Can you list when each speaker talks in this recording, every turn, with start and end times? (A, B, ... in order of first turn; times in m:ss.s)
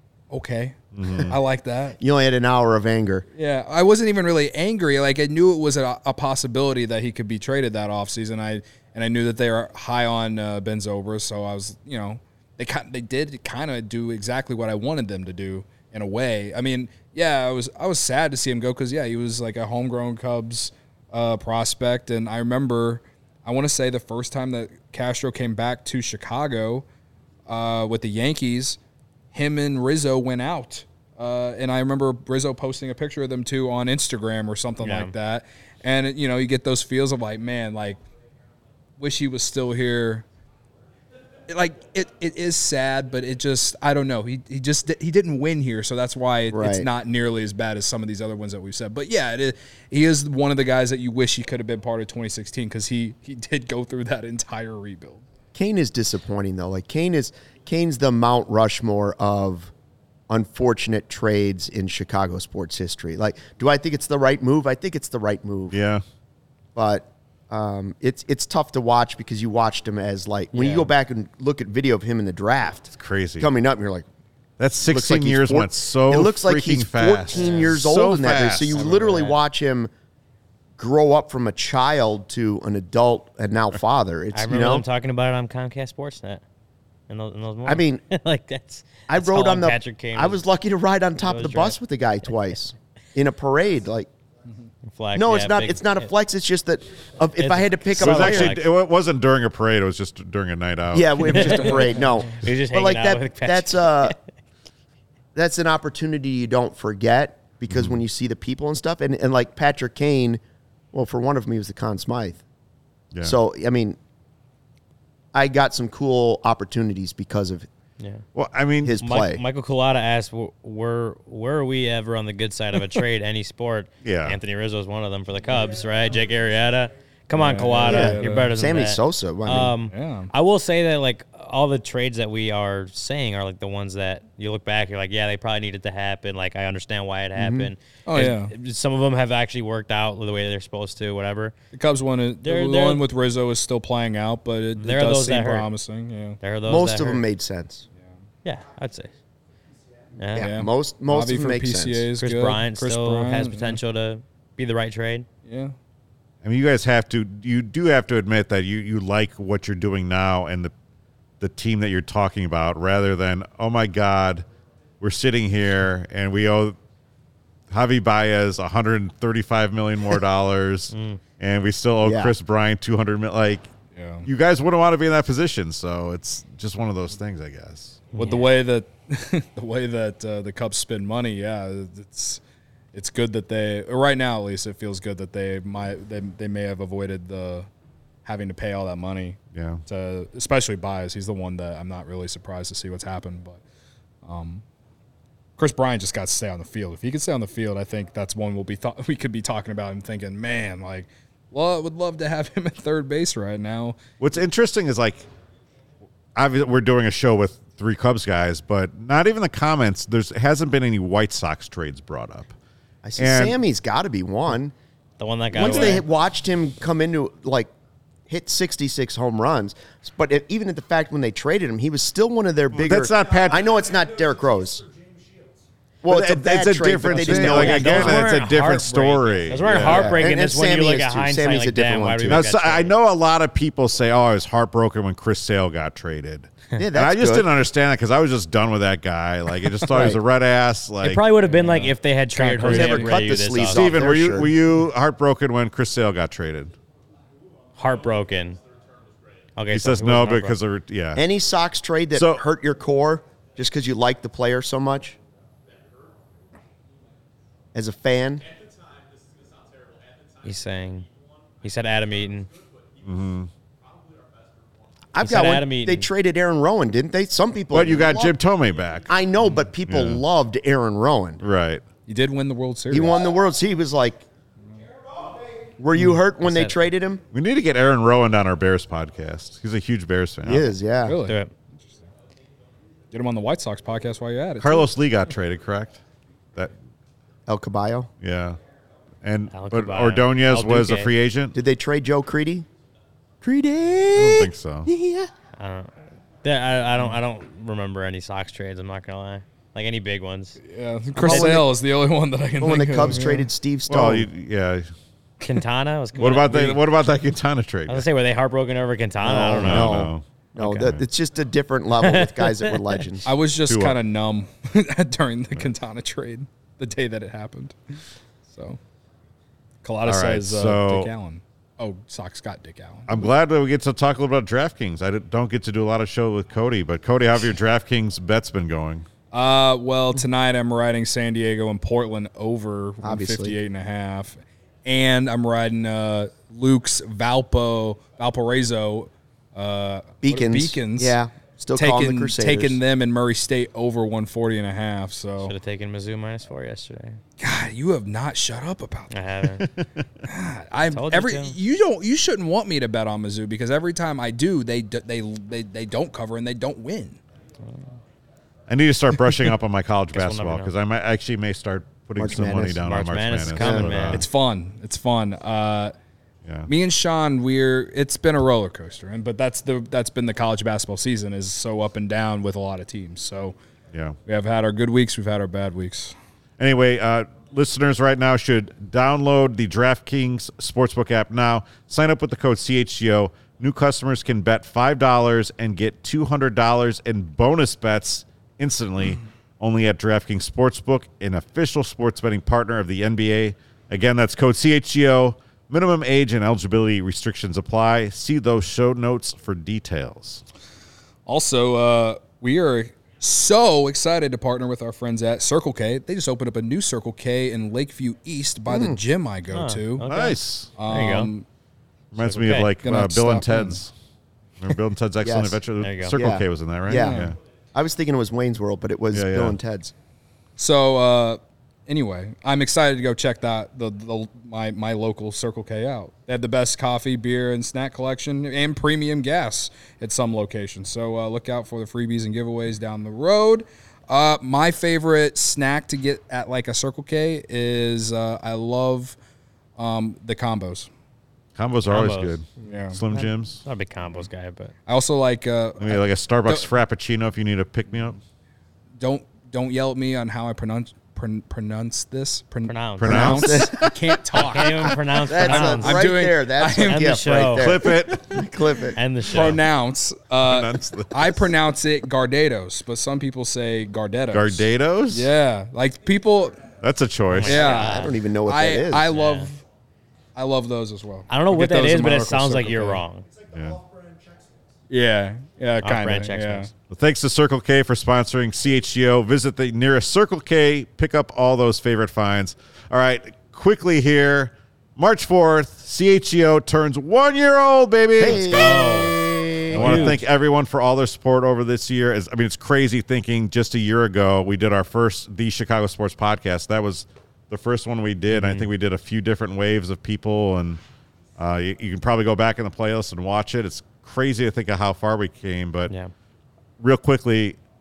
0:00.3-0:02.0 A
0:00.9-0:01.4 B
0:02.0-0:03.3 C
0:03.4-0:26.8 A
0:27.5-0:28.8 A
0:29.3-0:38.0 A
0:34.8-0:35.1 D
0:39.0-0:40.3 A
0:41.5-0:55.2 A
0:46.5-0:46.9 C
0:55.5-0:59.7 C
1:00.3-1:05.8 C
1:05.7-1:06.0 B
1:06.8-1:14.1 C
1:10.5-1:10.9 D
1:12.9-1:13.5 B
1:14.6-1:18.8 B
1:14.8-1:19.9 C
1:17.3-1:17.7 D
1:18.7-1:19.4 D
1:20.8-1:24.8 C
1:24.3-1:26.4 D
1:27.1-1:30.4 D
1:27.6-1:28.0 C
1:29.1-1:34.1 C
1:31.3-1:31.8 D
1:34.9-1:36.1 D
1:35.1-1:38.6 C
1:37.4-1:38.7 D
1:38.0-1:41.7 B
1:40.9-1:44.2 C
1:41.3-1:44.2 D
1:45.4-1:50.4 C
1:47.7-1:48.0 B
1:50.9-1:52.4 C
1:53.2-1:54.0 C
1:55.3-1:57.7 C
1:58.0-1:58.2 D
1:58.4-1:59.0 B
1:58.8-1:59.4 C
1:59.0-2:21.6 D
2:04.0-2:04.4 B
2:07.3-2:08.5 A
2:07.8-2:09.8 C
2:09.9-2:10.3 A
2:17.4-2:17.7 C
2:18.1-2:18.5 A
2:21.7-2:26.4 A
2:22.4-2:23.0 D
2:24.8-2:25.7 D
2:26.4-2:27.2 D
2:26.7-2:27.8 C
2:28.4-2:29.1 D
2:30.2-2:30.5 D
2:30.3-2:32.1 C
2:30.4-2:33.8 A
2:32.2-2:35.3 D
2:35.4-2:35.8 A
2:36.4-2:40.7 B
2:41.4-2:44.4 B
2:45.0-2:46.8 B
2:47.7-2:53.7 B
2:50.9-2:51.2 D
2:52.0-2:52.3 C
2:54.0-2:54.3 A
2:54.2-2:58.1 B
2:58.1-3:02.4 A
2:58.2-2:58.5 D
3:02.9-3:07.7 A
3:08.2-3:13.6 A
3:09.5-3:09.8 B
3:14.2-3:14.6 A
3:15.6-3:24.0 A
3:24.2-3:25.3 B
3:26.4-3:32.5 B
3:33.0-3:34.7 C
3:33.2-3:33.6 B
3:35.2-3:36.0 D
3:35.5-3:37.7 C
3:35.6-3:36.0 B
3:38.3-3:44.8 C
3:42.7-3:43.7 B
3:46.0-3:48.3 C
3:46.1-3:50.2 B
3:47.2-3:52.9 D
3:49.6-3:52.4 C
3:52.3-4:01.2 B
3:56.8-3:57.5 C
3:59.9-4:00.2 C
4:01.0-4:04.1 D
4:01.5-4:03.2 A
4:02.6-4:04.5 C
4:03.7-4:06.8 B
4:07.8-4:08.6 D
4:09.6-4:10.6 D
4:09.7-4:11.2 B
4:11.2-4:15.2 C
4:12.2-4:12.4 B
4:17.7-4:18.5 C
4:20.4-4:21.1 D
4:21.6-4:22.5 D
4:23.0-4:23.5 B
4:25.1-4:28.4 C
4:25.2-4:26.1 D
4:27.7-4:29.1 B
4:29.1-4:31.4 C
4:29.9-4:30.2 B
4:31.4-4:31.8 B
4:32.1-4:33.2 A
4:32.9-4:34.3 C
4:35.8-4:37.2 C
4:36.4-4:36.8 D
4:37.3-4:40.7 B
4:40.4-4:41.2 C
4:41.0-4:42.1 A
4:41.2-4:41.5 D
4:43.1-4:44.9 A
4:44.6-4:46.0 B
4:47.5-4:48.1 C
4:48.2-4:48.6 B
4:49.2-4:51.6 B
4:49.5-4:51.1 D
4:51.5-4:52.7 C
4:53.4-4:55.3 C
4:54.2-4:54.9 B
4:55.6-5:00.6 D
5:00.6-5:03.4 A
5:01.2-5:01.6 D
5:01.2-5:01.7 C
5:02.6-5:04.3 C
5:03.9-5:04.9 B
5:05.4-5:06.8 D
5:06.2-5:08.0 B
5:07.9-5:10.9 D
5:09.2-5:13.3 C
5:09.6-5:10.2 B
5:12.0-5:13.0 D
5:13.2-5:18.8 A
5:13.7-5:14.0 B
5:19.8-5:23.3 A
5:20.0-5:21.1 B
5:23.1-5:29.1 B
5:29.3-5:41.2 A
5:33.0-5:33.6 C
5:40.2-5:42.8 C
5:41.8-5:45.5 A
5:45.4-5:47.2 D
5:47.4-5:49.6 A
5:49.1-5:49.7 D
5:50.2-5:57.2 A
5:50.8-5:51.6 D
5:58.7-6:04.3 B
6:00.1-6:00.7 D
6:02.2-6:02.8 C
6:02.8-6:04.2 D
6:03.6-6:04.0 C
6:04.1-6:05.9 A
6:06.7-6:13.6 A
6:14.3-6:16.2 A
6:16.6-6:40.4 B
6:41.3-6:50.1 A
6:48.7-6:49.0 C
6:49.5-6:51.3 D
6:50.0-6:50.7 B
6:50.8-6:51.5 A
6:52.1-6:53.9 B
6:52.2-6:53.8 A
6:52.4-6:52.7 D
6:54.6-6:57.4 B
6:55.2-6:59.9 C
6:55.8-6:56.2 D
6:56.9-6:57.4 A
6:59.1-6:59.6 B
7:00.6-7:19.2 A
7:19.8-7:20.9 A
7:21.6-7:23.6 B
7:21.9-7:22.4 D
7:22.6-7:23.0 A
7:23.1-7:24.7 D
7:24.9-7:26.7 A
7:25.8-7:28.2 B
7:29.0-7:37.1 A
7:32.6-7:33.1 D
7:33.0-7:33.7 B
7:33.0-7:34.2 C
7:34.3-7:36.0 D
7:35.3-7:39.0 C
7:36.8-7:37.8 D
7:37.6-7:38.4 B
7:38.9-7:39.6 D
7:39.2-7:46.7 A
7:40.4-7:41.4 B
7:44.3-7:45.3 B
7:46.8-7:47.7 B
7:47.3-7:48.2 D
7:47.4-7:49.6 A
7:47.6-7:49.1 C
7:49.1-7:49.5 D
7:50.4-7:53.0 A
7:51.3-7:53.3 D
7:53.5-7:53.8 B
7:54.9-7:56.7 A
7:55.8-7:56.7 D
7:56.9-8:09.0 B
8:08.2-8:10.2 C
8:08.2-8:09.2 D
8:09.7-8:20.8 B
8:09.7-8:10.2 D
8:18.3-8:18.7 D
8:21.4-8:25.9 B
8:26.8-8:27.6 B